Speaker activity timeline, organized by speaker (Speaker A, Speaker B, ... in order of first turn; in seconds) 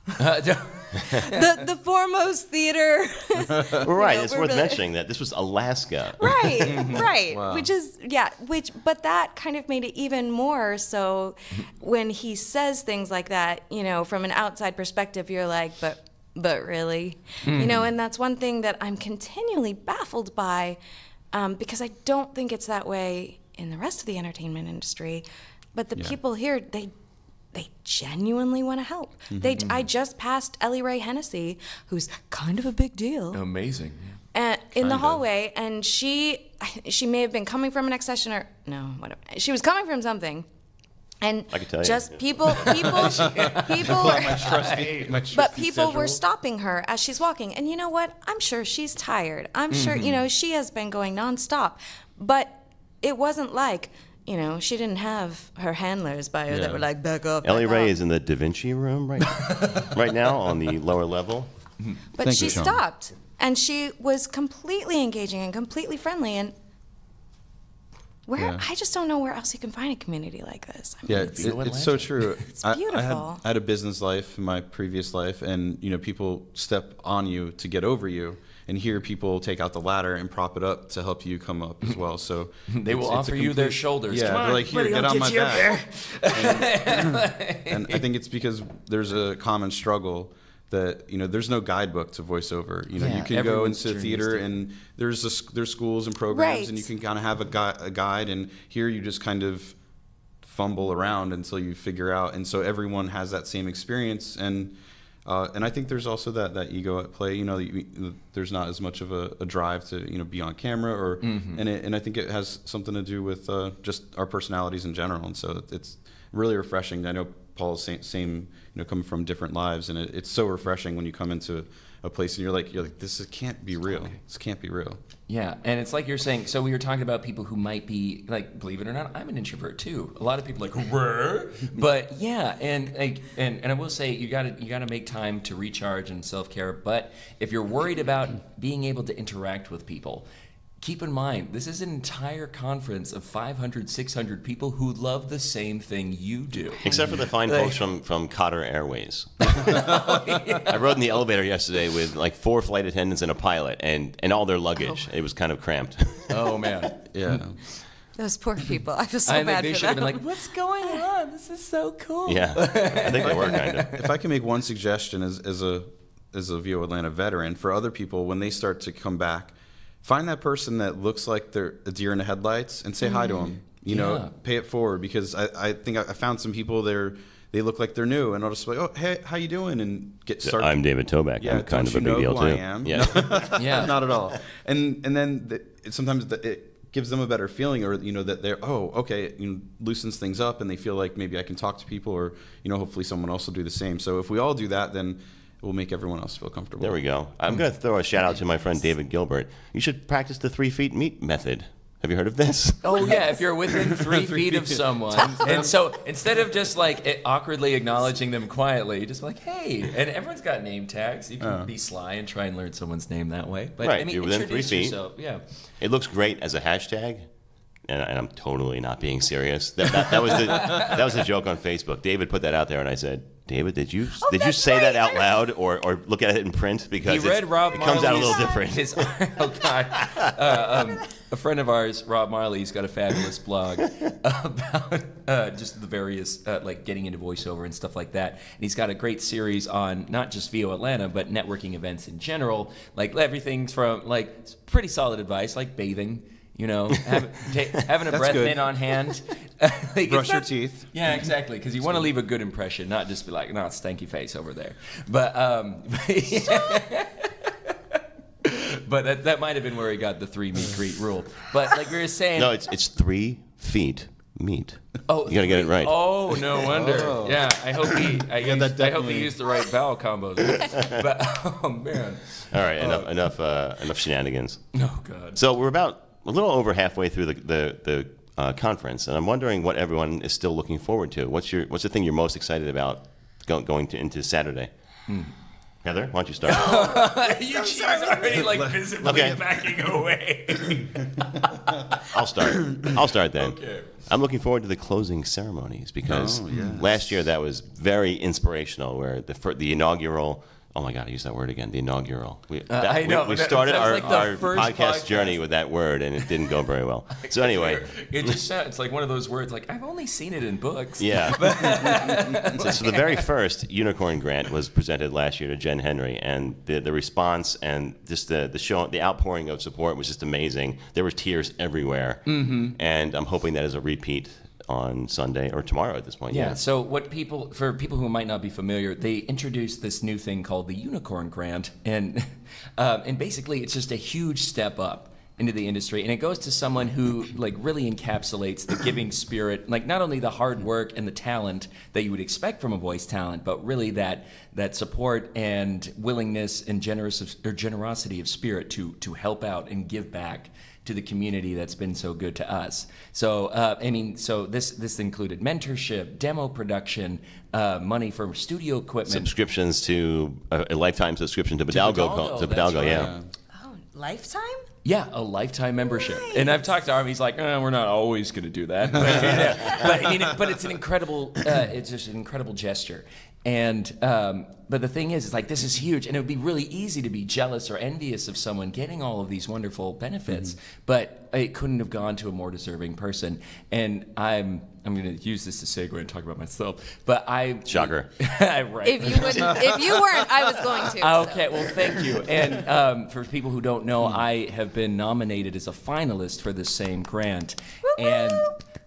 Speaker A: 0.2-1.5, 6.7-7.0, 17.4-17.9, 33.3-34.2, 42.5-44.9, 49.7-50.2, 59.5-59.9, 71.1-72.4, 82.7-88.0, 93.0-94.5, 111.2-111.6, 125.3-140.2, 140.8-147.8, 149.5-150.8, 156.3-157.4, 159.2-163.9, 173.9-174.3, 183.5-183.9, 202.8-215.4, 227.0-262.5, 265.1-273.0, 274.7-275.4, 285.1-285.3, 286.4-291.0, 293.4-293.9, 302.7-305.4, 307.2-313.2, 322.3-322.8, 326.3-359.3, 361.7-363.1, 364.8-398.5
Speaker B: 1.1-4.9, 6.2-20.8, 21.3-26.9, 27.5-33.4, 34.3-40.5, 41.2-44.7, 45.3-57.9, 62.1-66.5, 68.3-71.5, 72.4-73.4, 96.3-96.9, 146.8-147.1, 158.2-160.3, 173.0-173.5, 224.2-225.3, 286.7-288.4, 363.5-364.6, 365.8-366.8, 388.8-391.7, 397.8-398.5
Speaker C: 3.8-6.7, 41.5-42.8, 57.4-61.5, 146.8-156.7, 162.2-163.9, 180.4-183.5, 196.8-203.2, 213.8-215.0, 215.8-217.3, 217.9-229.1, 262.4-265.9, 270.7-271.0, 272.5-274.6, 275.3-284.7, 285.8-286.9, 289.0-289.4, 292.1-308.3, 311.0-326.6, 359.1-363.1, 387.7-388.1
Speaker D: 7.3-7.7, 29.3-29.8, 34.8-35.2, 43.8-46.2, 56.5-56.8, 62.2-62.8, 68.4-68.6, 71.0-99.8, 100.4-125.0, 157.1-157.6, 163.2-197.0, 203.7-205.7, 211.4-211.7, 248.1-248.7, 250.1-250.9, 266.7-269.4, 288.5-289.2, 296.1-297.1, 362.9-363.3